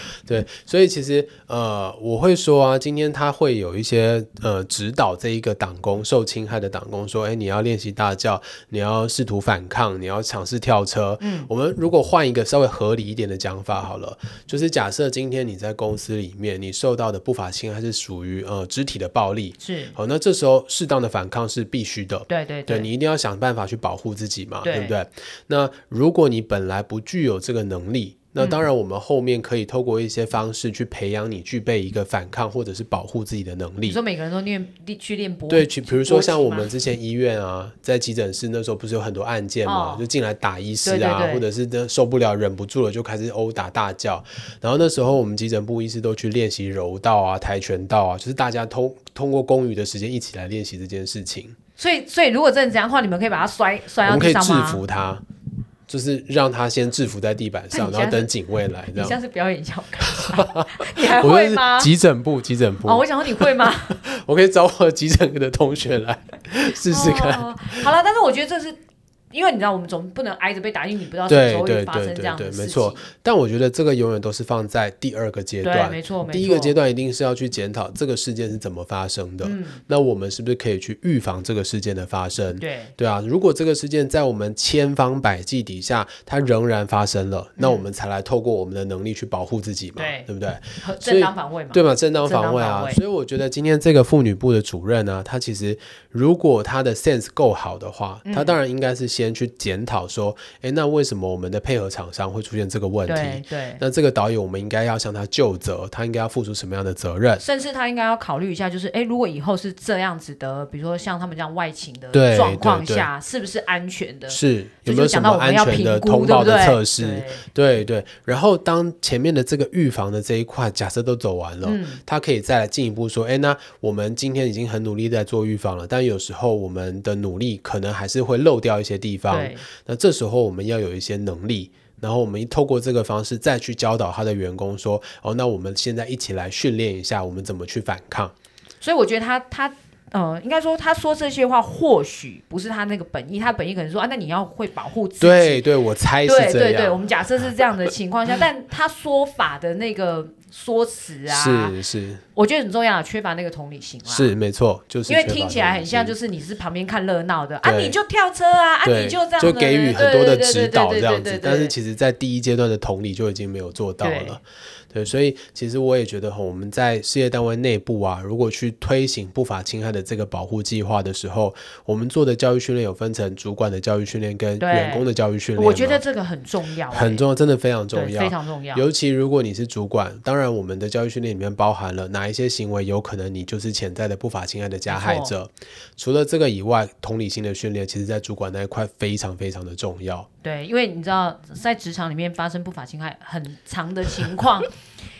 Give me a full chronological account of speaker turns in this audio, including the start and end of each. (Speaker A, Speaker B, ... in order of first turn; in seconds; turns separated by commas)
Speaker A: 0.3-34.0, Speaker B: 11.2-11.5, Speaker B: 19.6-20.0, Speaker B: 22.3-22.9, Speaker B: 24.6-25.0, Speaker B: 28.4-28.6, Speaker B: 33.8-36.7, Speaker A: 35.5-51.6, Speaker B: 39.6-40.1, Speaker B: 40.8-41.5, Speaker B: 51.8-54.8, Speaker A: 54.0-55.2, Speaker A: 55.9-59.2, Speaker B: 57.7-58.3, Speaker B: 58.9-61.9, Speaker A: 60.4-67.9, Speaker B: 62.8-64.0, Speaker B: 66.8-68.8, Speaker B: 69.3-73.1, Speaker A: 71.3-107.4, Speaker B: 75.6-76.8, Speaker B: 79.4-79.8, Speaker B: 82.6-82.9, Speaker B: 87.6-87.8, Speaker B: 90.0-93.0, Speaker B: 98.2-98.6, Speaker B: 103.0-103.8, Speaker B: 107.4-117.5, Speaker A: 112.1-113.1, Speaker A: 114.3-138.3, Speaker B: 121.6-122.0, Speaker B: 129.3-129.7, Speaker B: 138.8-145.6, Speaker A: 145.2-147.1, Speaker B: 146.2-151.8, Speaker A: 151.3-152.2, Speaker B: 152.3-154.3, Speaker A: 154.1-156.2, Speaker B: 155.1-161.7, Speaker A: 157.6-158.0, Speaker A: 158.8-176.0, Speaker B: 164.0-164.4, Speaker B: 174.6-177.2, Speaker A: 176.9-190.3, Speaker B: 177.9-178.9, Speaker B: 184.9-185.3, Speaker B: 190.4-194.7